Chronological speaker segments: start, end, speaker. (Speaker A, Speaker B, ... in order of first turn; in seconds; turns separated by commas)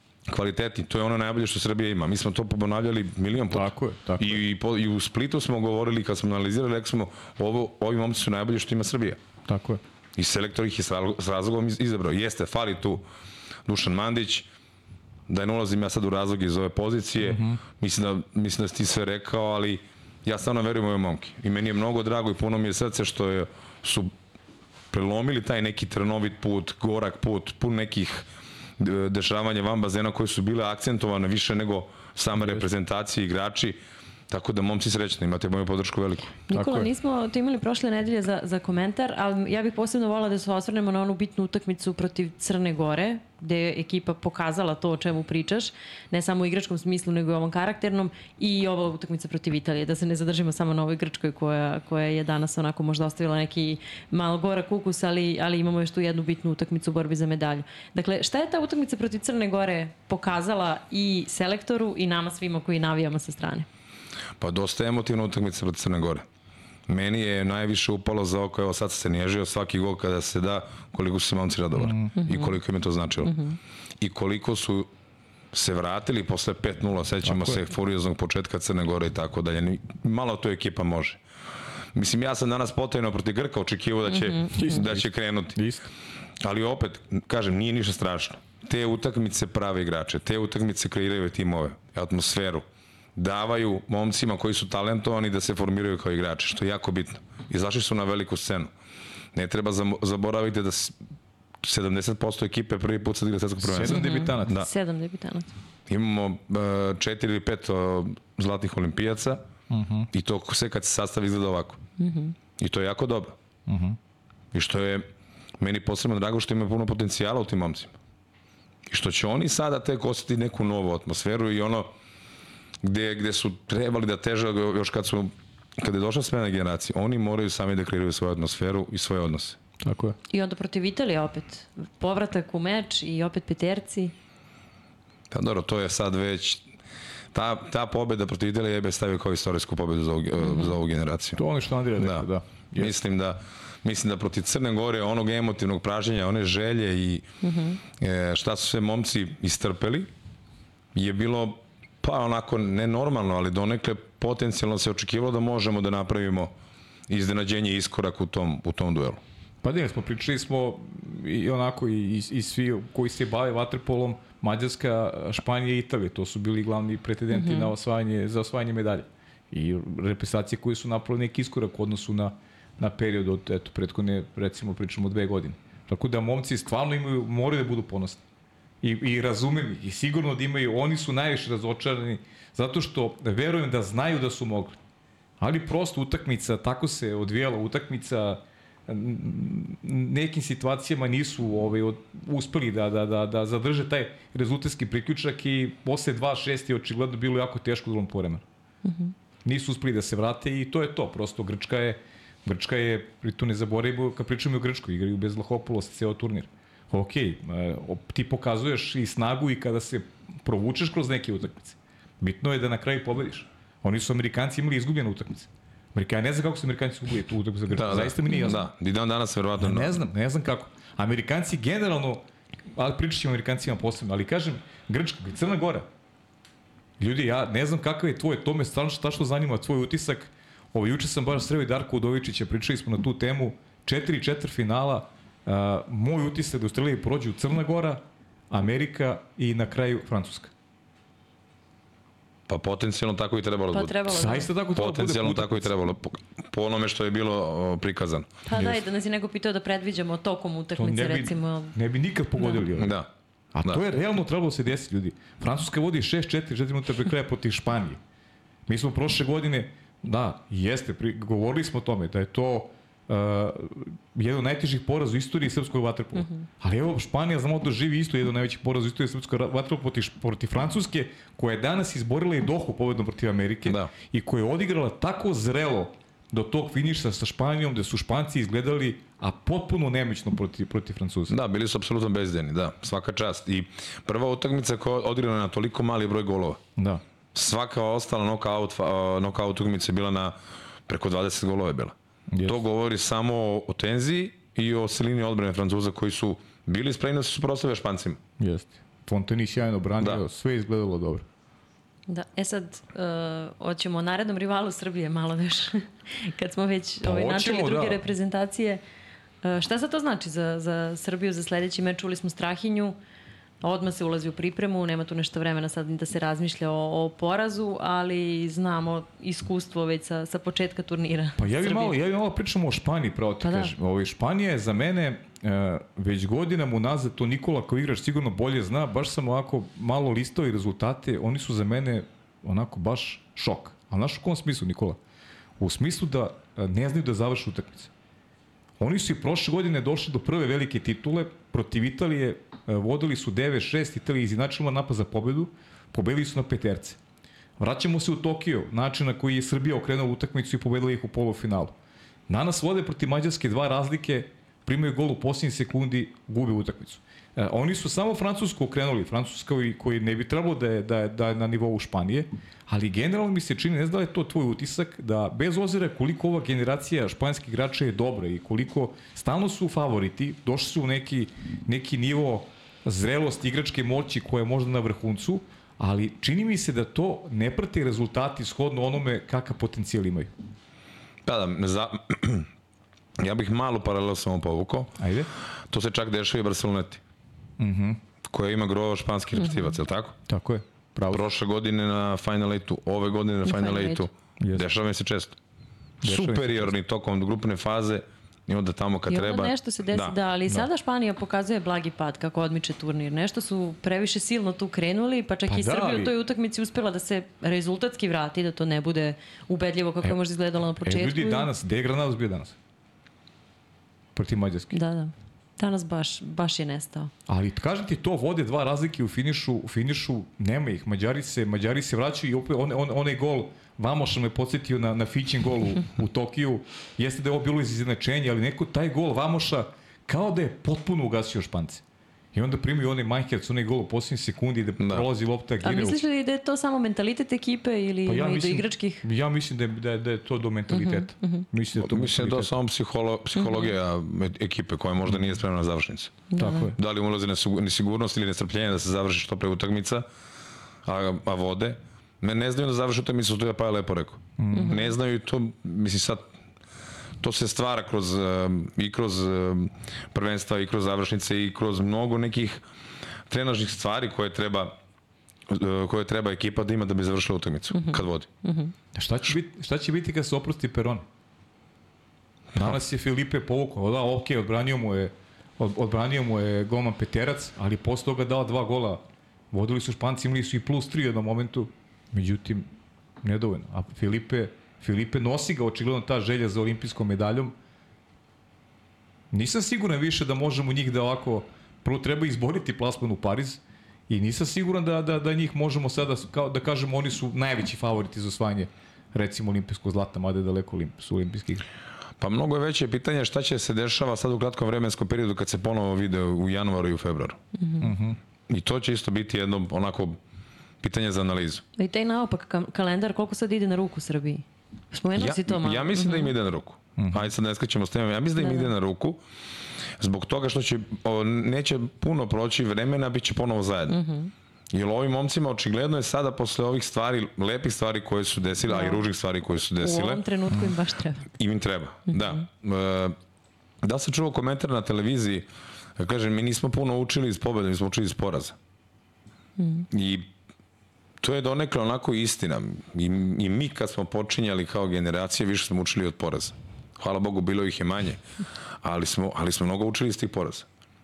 Speaker A: 0.3-9.2, Speaker B: 3.5-4.4, Speaker B: 9.5-9.8, Speaker A: 10.2-13.1, Speaker A: 13.7-14.5, Speaker A: 15.3-24.1, Speaker B: 17.2-17.6, Speaker A: 24.9-36.4, Speaker B: 32.4-32.6, Speaker C: 36.5-63.7, Speaker B: 36.5-36.9, Speaker A: 64.4-66.3, Speaker A: 66.9-73.4, Speaker B: 71.8-72.1, Speaker C: 72.2-72.6, Speaker C: 73.2-73.6, Speaker A: 74.0-74.9, Speaker A: 75.5-81.2, Speaker B: 77.2-77.6, Speaker A: 81.9-85.6, Speaker C: 84.1-84.8, Speaker B: 84.5-85.9, Speaker A: 86.4-98.7, Speaker A: 99.3-101.0, Speaker A: 101.6-104.7, Speaker B: 103.6-104.6, Speaker C: 103.8-105.5, Speaker A: 105.9-109.5, Speaker B: 109.7-110.1, Speaker A: 110.1-111.8, Speaker C: 112.0-112.3, Speaker A: 112.6-113.4, Speaker B: 113.7-114.0, Speaker A: 114.5-115.1, Speaker A: 115.6-118.0, Speaker A: 118.9-121.9, Speaker A: 122.8-129.6, Speaker B: 129.8-130.2, Speaker C: 130.3-134.1, Speaker A: 135.3-136.7, Speaker A: 137.3-141.4, Speaker C: 140.4-140.7, Speaker B: 141.4-142.9, Speaker A: 142.0-147.3, Speaker C: 147.4-147.8, Speaker A: 148.0-150.1, Speaker A: 150.9-156.5, Speaker A: 157.1-159.2, Speaker B: 159.6-178.2, Speaker C: 167.3-167.7, Speaker B: 178.8-184.8, Speaker B: 185.4-198.4, Speaker C: 198.8-199.1, Speaker B: 199.4-218.6, Speaker A: 217.7-219.9, Speaker C: 218.3-218.6, Speaker B: 219.6-222.2, Speaker B: 222.8-225.9, Speaker B: 227.0-240.5, Speaker A: 242.5-244.0, Speaker C: 243.7-244.5, Speaker B: 244.1-245.8, Speaker A: 244.7-248.3, Speaker C: 248.5-251.8, Speaker B: 248.6-248.8, Speaker B: 250.8-253.0, Speaker A: 252.8-253.1, Speaker B: 253.5-258.0, Speaker B: 258.7-281.4, Speaker C: 266.2-266.4, Speaker A: 273.6-273.9, Speaker A: 281.3-286.6, Speaker B: 286.8-287.0, Speaker A: 287.3-290.4, Speaker A: 290.9-298.2, Speaker B: 292.3-292.6, Speaker B: 298.4-301.2, Speaker C: 302.1-308.8, Speaker B: 307.0-308.0, Speaker C: 309.4-313.0, Speaker C: 313.6-321.9, Speaker B: 321.4-335.0, Speaker C: 323.4-323.7, Speaker B: 335.6-337.9, Speaker B: 338.8-347.0, Speaker B: 347.6-351.7, Speaker B: 352.3-380.3, Speaker A: 381.2-382.5, Speaker A: 383.2-385.0, Speaker B: 385.0-385.3, Speaker A: 385.7-387.0, Speaker B: 387.6-388.0, Speaker A: 388.3-390.2, Speaker C: 389.4-389.8, Speaker B: 390.3-391.3, Speaker A: 391.1-395.4, Speaker C: 393.4-394.1, Speaker B: 396.0-396.8, Speaker A: 396.0-400.1, Speaker C: 399.1-411.5, Speaker B: 405.5-406.1, Speaker B: 410.8-412.6, Speaker B: 414.2-414.8, Speaker C: 414.7-417.1, Speaker B: 417.3-431.8, Speaker B: 432.3-436.0, Speaker A: 434.8-435.1, Speaker C: 435.6-439.1, Speaker B: 438.1-442.5, Speaker C: 440.7-441.5, Speaker A: 441.8-446.2, Speaker C: 443.4-443.7, Speaker B: 445.1-445.4, Speaker C: 446.3-446.7, Speaker B: 446.4-446.8, Speaker A: 446.8-450.1, Speaker A: 450.9-456.3, Speaker B: 454.4-454.8, Speaker C: 454.6-454.9, Speaker A: 457.2-462.6, Speaker A: 463.3-464.8, Speaker A: 465.5-468.3, Speaker C: 467.7-468.7, Speaker B: 468.9-471.1, Speaker B: 472.6-479.0, Speaker B: 479.5-482.7, Speaker B: 483.2-487.6, Speaker B: 489.3-501.7, Speaker A: 502.2-507.4, Speaker C: 507.6-507.9, Speaker B: 507.8-508.2, Speaker A: 508.5-510.2, Speaker A: 510.8-511.6, Speaker C: 511.8-516.3, Speaker A: 515.2-519.2, Speaker B: 517.0-517.3, Speaker C: 518.4-518.7, Speaker A: 520.0-524.0, Speaker C: 523.9-524.3, Speaker A: 524.7-530.2, Speaker C: 528.7-529.0, Speaker C: 529.8-531.2, Speaker A: 531.4-533.2, Speaker C: 532.1-532.4, Speaker A: 533.8-535.5, Speaker A: 536.0-538.6, Speaker C: 539.6-539.9, Speaker A: 539.9-540.3, Speaker A: 541.2-548.2, Speaker A: 548.8-550.7